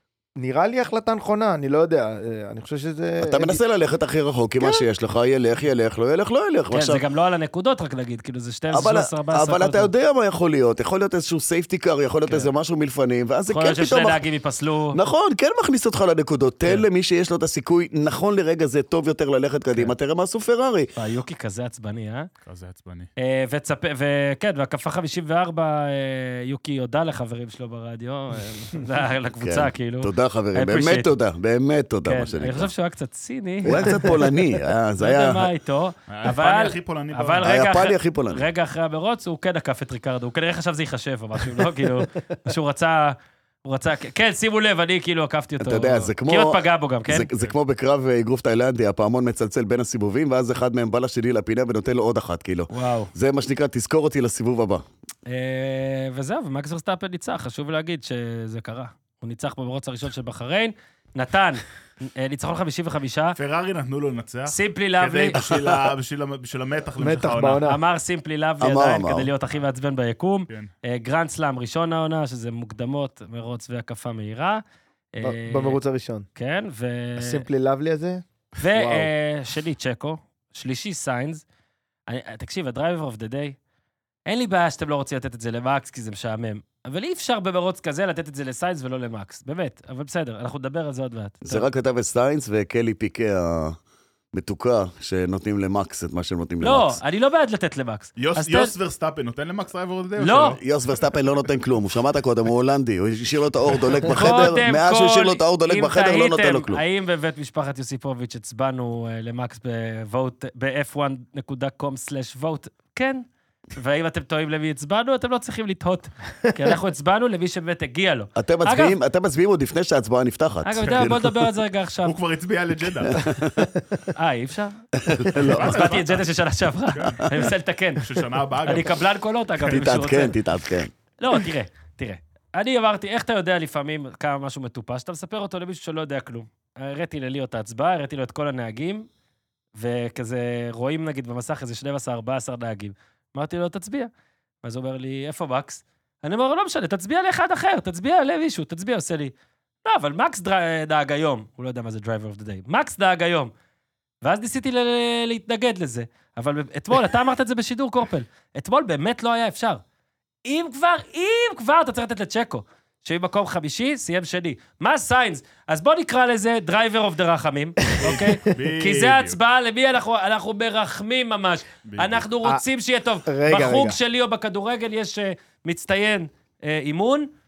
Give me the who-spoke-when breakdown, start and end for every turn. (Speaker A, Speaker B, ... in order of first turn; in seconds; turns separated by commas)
Speaker A: 0.4-3.6, Speaker B: 3.2-7.0, Speaker C: 6.7-9.9, Speaker B: 8.7-14.2, Speaker C: 13.5-15.0, Speaker B: 14.9-20.9, Speaker C: 21.0-22.3, Speaker D: 22.4-23.1, Speaker C: 23.2-31.1, Speaker B: 29.4-32.7, Speaker C: 32.0-34.2, Speaker B: 33.6-35.5, Speaker C: 35.0-47.3, Speaker D: 36.1-37.5, Speaker B: 37.4-38.4, Speaker B: 45.6-54.8, Speaker C: 52.7-53.1, Speaker C: 55.3-63.4, Speaker D: 63.4-67.6, Speaker C: 64.5-65.4, Speaker B: 65.5-65.7, Speaker A: 67.0-67.8, Speaker C: 67.6-74.6, Speaker B: 68.6-69.3, Speaker C: 75.2-75.8, Speaker A: 75.2-76.2, Speaker C: 76.3-77.4, Speaker A: 77.2-79.1, Speaker C: 78.6-81.4, Speaker C: 82.1-83.5, Speaker C: 84.3-91.6, Speaker B: 91.4-93.8, Speaker B: 94.3-97.0, Speaker C: 96.6-98.7, Speaker D: 98.2-100.6, Speaker C: 100.2-100.6, Speaker B: 100.6-106.8, Speaker C: 104.1-113.2, Speaker C: 113.8-119.0, Speaker B: 118.3-121.4, Speaker C: 120.6-122.2, Speaker D: 122.0-123.2, Speaker B: 123.0-123.7, Speaker C: 124.2-124.7, Speaker B: 125.0-126.0, Speaker C: 125.4-130.3, Speaker D: 125.4-126.2, Speaker D: 126.9-127.5, Speaker D: 128.0-129.0, Speaker B: 129.7-130.9, Speaker C: 131.2-139.1, Speaker C: 139.8-144.1, Speaker C: 144.6-149.3, Speaker C: 149.8-153.5, Speaker C: 154.2-159.8, Speaker C: 160.4-177.3, Speaker D: 168.0-169.4, Speaker D: 171.8-172.2, Speaker A: 173.2-174.0